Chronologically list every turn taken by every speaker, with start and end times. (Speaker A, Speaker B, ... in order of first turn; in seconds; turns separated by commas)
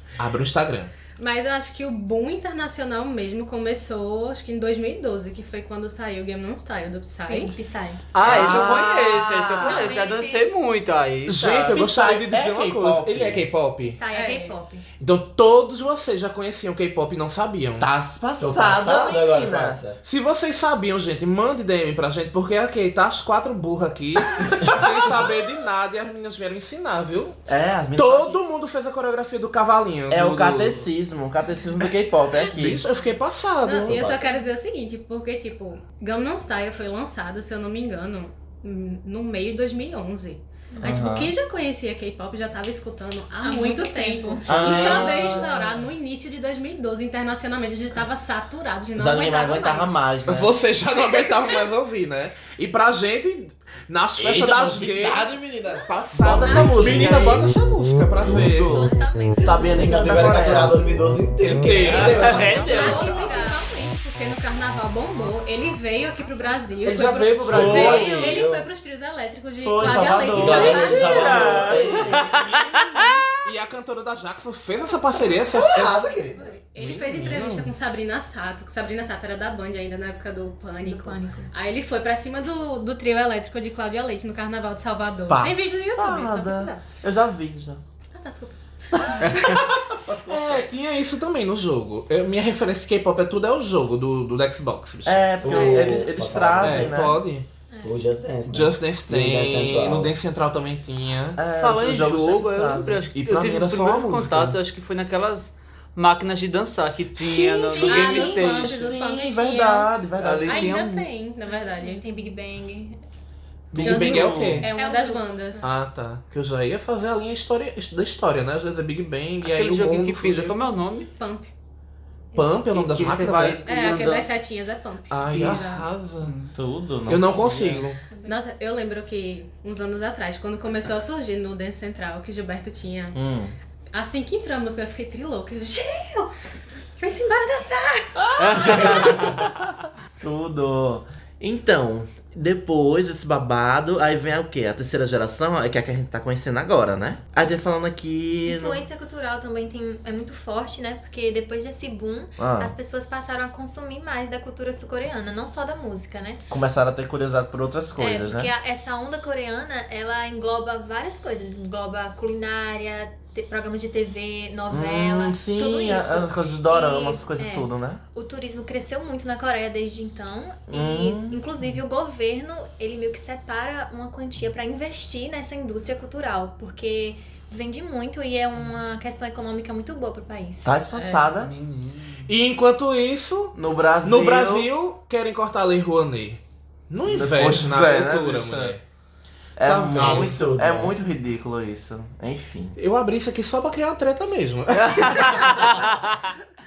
Speaker A: 0.2-0.9, Speaker B: 1.2-7.5, Speaker C: 7.2-8.8, Speaker D: 8.1-11.8, Speaker E: 8.2-10.0, Speaker C: 9.6-10.5, Speaker A: 11.2-14.0, Speaker E: 11.7-13.5, Speaker C: 13.8-14.8, Speaker B: 14.1-14.6, Speaker A: 15.0-17.9, Speaker E: 17.8-19.8, Speaker F: 18.4-20.0, Speaker A: 20.0-27.4, Speaker E: 27.5-28.4, Speaker A: 27.9-30.9, Speaker E: 30.1-32.8, Speaker A: 32.5-34.1, Speaker B: 33.6-50.0, Speaker F: 33.9-34.2, Speaker C: 40.7-41.0, Speaker E: 40.8-41.3, Speaker C: 43.4-45.5, Speaker E: 44.4-45.5, Speaker E: 49.0-50.5, Speaker A: 50.3-58.9, Speaker E: 54.2-55.4, Speaker E: 56.2-57.5, Speaker B: 56.4-57.1, Speaker E: 58.3-60.8, Speaker C: 58.7-60.3, Speaker F: 59.7-63.3, Speaker A: 61.6-62.4, Speaker D: 61.8-63.2, Speaker B: 61.9-71.3, Speaker C: 62.5-63.8, Speaker D: 66.8-68.3, Speaker E: 67.5-68.4, Speaker F: 67.5-68.6, Speaker E: 69.6-72.4, Speaker F: 70.2-72.0, Speaker D: 70.4-73.2, Speaker A: 72.0-76.0, Speaker F: 75.5-76.6, Speaker B: 76.7-86.8, Speaker A: 76.8-77.7, Speaker C: 80.8-81.5, Speaker E: 85.3-87.8, Speaker B: 88.1-89.2, Speaker E: 88.9-90.7, Speaker A: 89.3-95.3, Speaker E: 95.0-97.2, Speaker F: 95.4-97.0, Speaker B: 95.5-95.9, Speaker A: 96.6-97.5, Speaker C: 97.7-98.0, Speaker F: 97.8-100.1, Speaker A: 98.5-101.4, Speaker E: 101.4-103.0, Speaker D: 101.5-108.9, Speaker A: 103.1-104.6, Speaker A: 107.2-107.8, Speaker E: 107.6-110.7, Speaker C: 107.7-108.5, Speaker B: 107.8-109.9, Speaker D: 110.2-111.1, Speaker B: 110.5-112.0, Speaker C: 111.4-113.0, Speaker A: 113.7-114.7, Speaker E: 113.7-114.7, Speaker B: 113.8-115.7, Speaker C: 114.7-115.7, Speaker A: 115.6-120.6, Speaker D: 119.4-121.1, Speaker B: 121.2-121.5, Speaker C: 122.3-122.6, Speaker A: 122.3-123.6, Speaker D: 122.7-124.2, Speaker B: 123.7-125.8, Speaker E: 123.9-124.2, Speaker A: 125.1-126.3, Speaker D: 125.3-126.5, Speaker E: 126.5-127.9, Speaker A: 127.1-128.0, Speaker C: 128.1-128.4, Speaker B: 128.2-133.2, Speaker E: 133.1-133.5, Speaker B: 133.9-136.3, Speaker B: 137.0-138.8, Speaker E: 138.2-139.5, Speaker D: 138.4-139.5, Speaker E: 140.2-148.8, Speaker C: 148.4-156.4, Speaker E: 152.4-152.7, Speaker E: 156.5-158.5, Speaker C: 158.0-180.7, Speaker E: 164.7-168.0, Speaker E: 170.7-171.4, Speaker E: 180.6-181.5, Speaker D: 181.2-182.3, Speaker A: 182.3-188.8, Speaker E: 183.5-184.7, Speaker E: 187.0-188.8, Speaker E: 189.6-192.8, Speaker A: 189.6-190.6, Speaker F: 189.9-191.0, Speaker A: 192.8-195.8, Speaker D: 194.7-196.1